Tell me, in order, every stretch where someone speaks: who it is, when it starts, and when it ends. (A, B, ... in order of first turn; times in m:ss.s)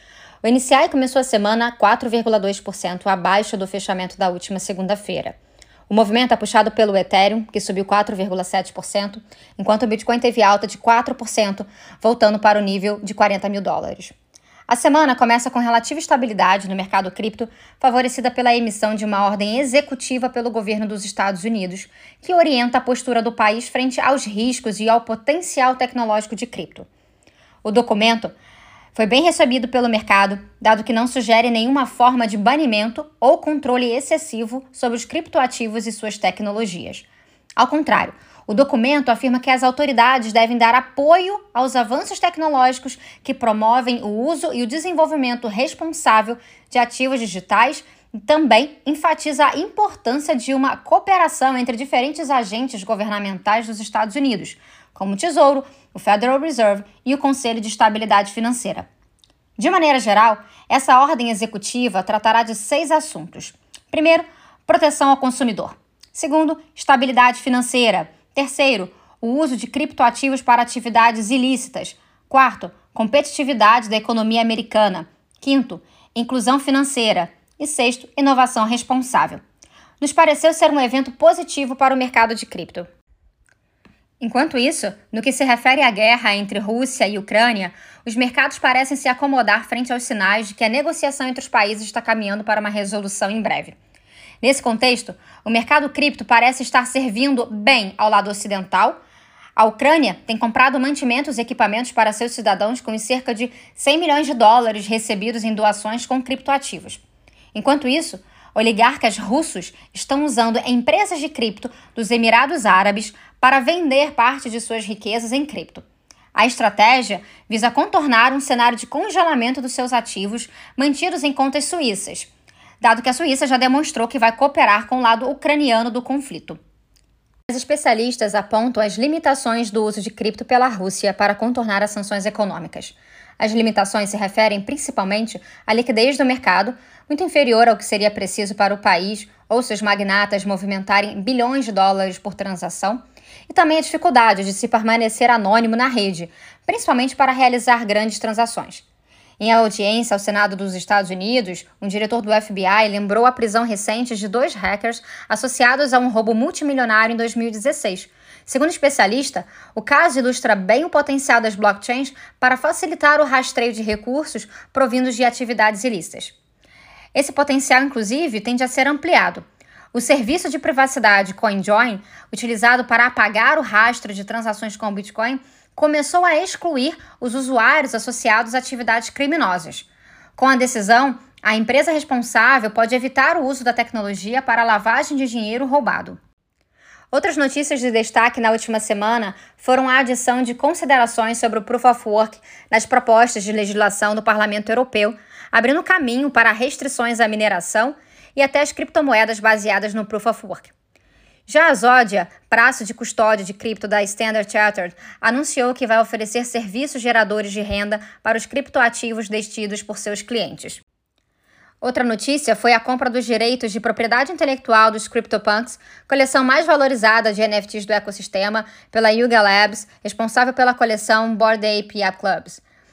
0:00.4-0:05.4 A
0:05.9-0:14.1 A
0:14.7-0:26.9 A
0:27.6-0:28.3 A
0:28.9-0:58.9 A
0:59.6-1:19.4 A
1:20.0-1:22.9 A
1:24.2-1:33.8 A
1:34.4-1:39.0 A
1:39.6-1:47.0 A
1:47.5-1:55.8 A
1:56.3-2:02.3 A
2:02.8-2:06.6 A
2:07.5-2:28.8 A
2:29.4-2:46.3 A
2:47.1-3:06.2 A
3:07.1-3:20.7 A
3:21.5-3:30.8 A
3:31.8-3:42.6 A